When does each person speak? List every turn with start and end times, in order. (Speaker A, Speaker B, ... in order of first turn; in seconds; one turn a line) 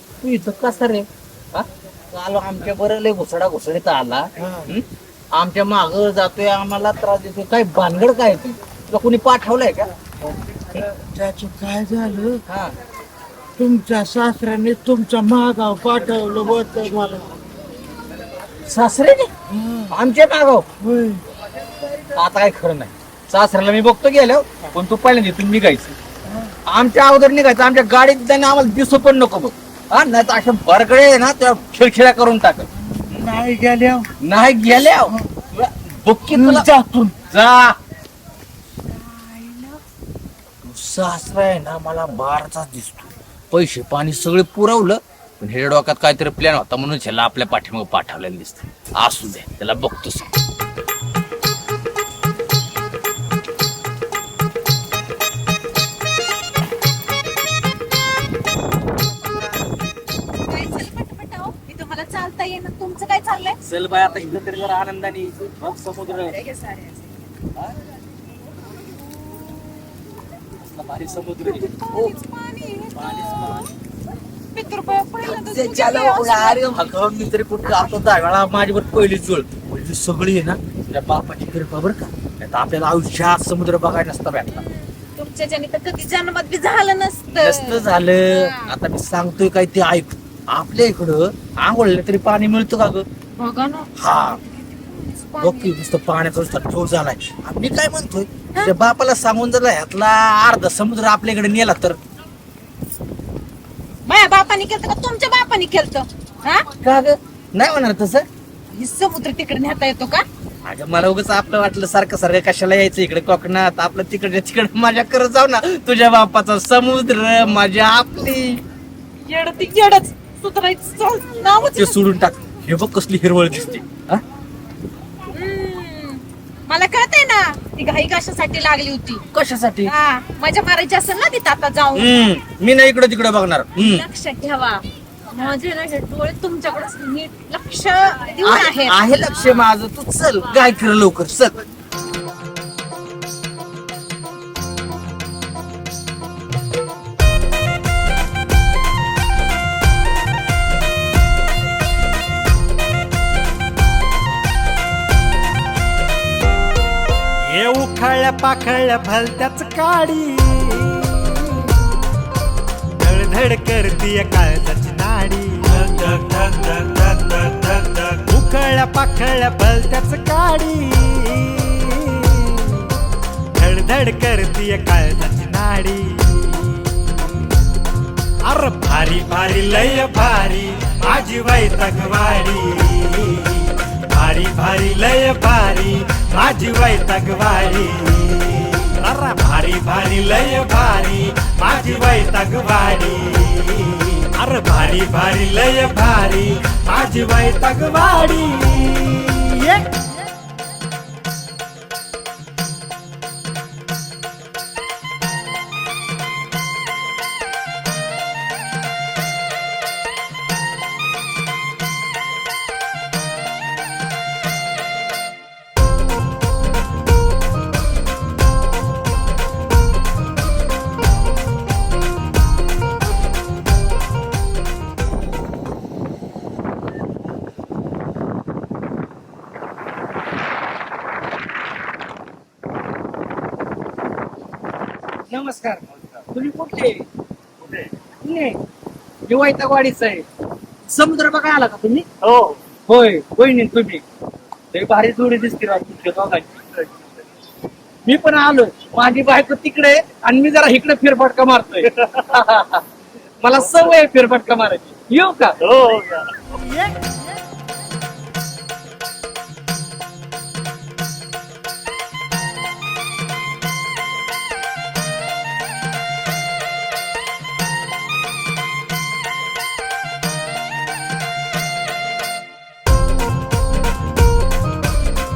Speaker A: 0.2-9.9
Speaker B: 4.4-4.7
Speaker B: 11.1-12.4
Speaker A: 12.5-12.7
Speaker B: 13.6-17.3
Speaker A: 18.6-19.4
Speaker A: 19.9-20.7
Speaker B: 20.8-21.2
Speaker A: 22.1-25.9
Speaker A: 26.6-33.3
Speaker B: 33.0-34.1
Speaker A: 34.2-37.7
Speaker B: 36.3-36.7
Speaker C: 39.2-39.6
Speaker A: 40.6-50.3
Speaker C: 60.5-63.6
Speaker A: 63.6-66.4
Speaker C: 66.3-67.1
Speaker A: 70.5-72.2
Speaker C: 71.5-73.7
Speaker A: 72.9-73.6
Speaker C: 74.3-77.3
Speaker A: 75.2-84.6
Speaker C: 84.5-88.7
Speaker A: 87.3-93.0
Speaker C: 93.4-95.8
Speaker A: 94.0-94.4
Speaker A: 95.4-102.0
Speaker C: 104.0-106.7
Speaker A: 106.8-108.2
Speaker C: 108.7-110.2
Speaker A: 110.6-118.6
Speaker C: 119.2-122.1
Speaker A: 121.7-124.2
Speaker C: 125.3-129.2
Speaker A: 129.3-129.9
Speaker C: 129.8-132.1
Speaker A: 131.9-134.1
Speaker C: 133.8-139.0
Speaker A: 138.4-141.5
Speaker D: 157.5-161.5
Speaker D: 163.0-172.9
Speaker D: 173.6-177.1
Speaker D: 178.5-199.8
Speaker A: 235.3-237.0
Speaker A: 237.6-238.6
Speaker A: 239.3-240.2
Speaker A: 240.8-244.0
Speaker A: 244.7-246.9
Speaker A: 248.0-252.8
Speaker A: 253.4-256.0
Speaker D: 256.6-256.9